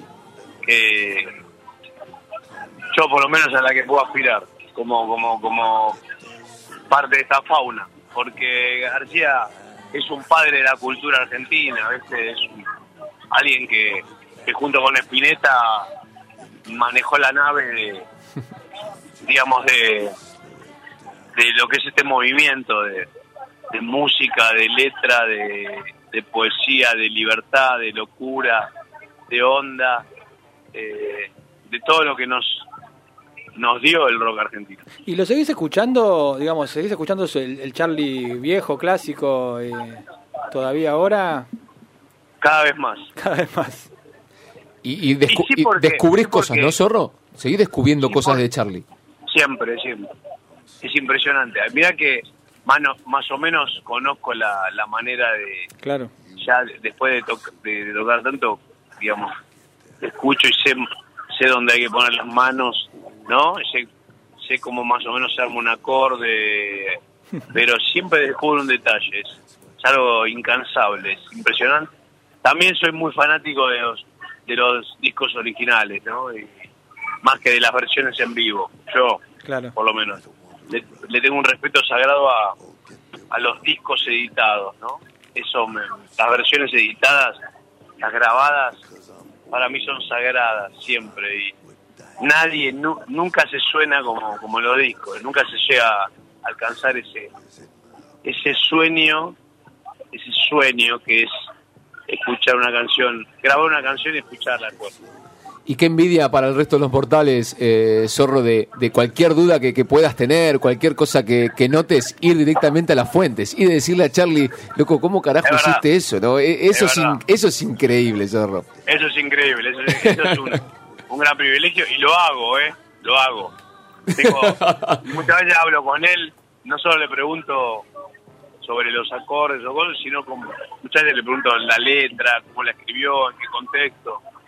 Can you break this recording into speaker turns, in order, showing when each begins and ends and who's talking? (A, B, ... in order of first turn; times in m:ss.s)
0:00.6-0:01.3 A
0:02.9-0:06.0 A
0:06.9-0:12.6 A
0:13.3-0:15.9 A
0:16.7-0:18.0 A
0:19.2-0:20.1 A
0:21.3-0:23.1 A
0:23.7-0:28.7 A
0:29.3-0:30.0 A
0:30.7-0:32.6 A
0:33.6-0:34.8 A
0:35.0-0:41.5 B
0:42.4-0:43.1 A
0:43.2-0:43.9 B
0:44.8-0:48.8 C
0:45.3-0:46.7 A
0:49.3-0:50.1 A
0:50.8-0:55.7 A
0:55.8-0:56.1 B
0:56.4-0:59.3 A
1:00.0-1:03.9 A
1:04.4-1:07.0 A
1:07.5-1:11.9 A
1:12.4-1:16.5 A
1:17.2-1:19.2 A
1:19.4-1:19.7 B
1:19.8-1:22.6 A
1:23.3-1:27.4 A
1:28.0-1:28.8 A
1:29.5-1:31.5 A
1:32.2-1:37.3 A
1:38.2-1:39.4 A
1:40.1-1:41.3 A
1:42.1-1:44.9 A
1:45.6-1:58.7 C
1:55.4-1:55.8 A
1:56.7-1:57.2 A
1:58.8-2:03.5 A
1:59.9-2:00.6 C
2:04.1-2:05.2 C
2:04.1-2:07.8 A
2:08.6-2:14.2 A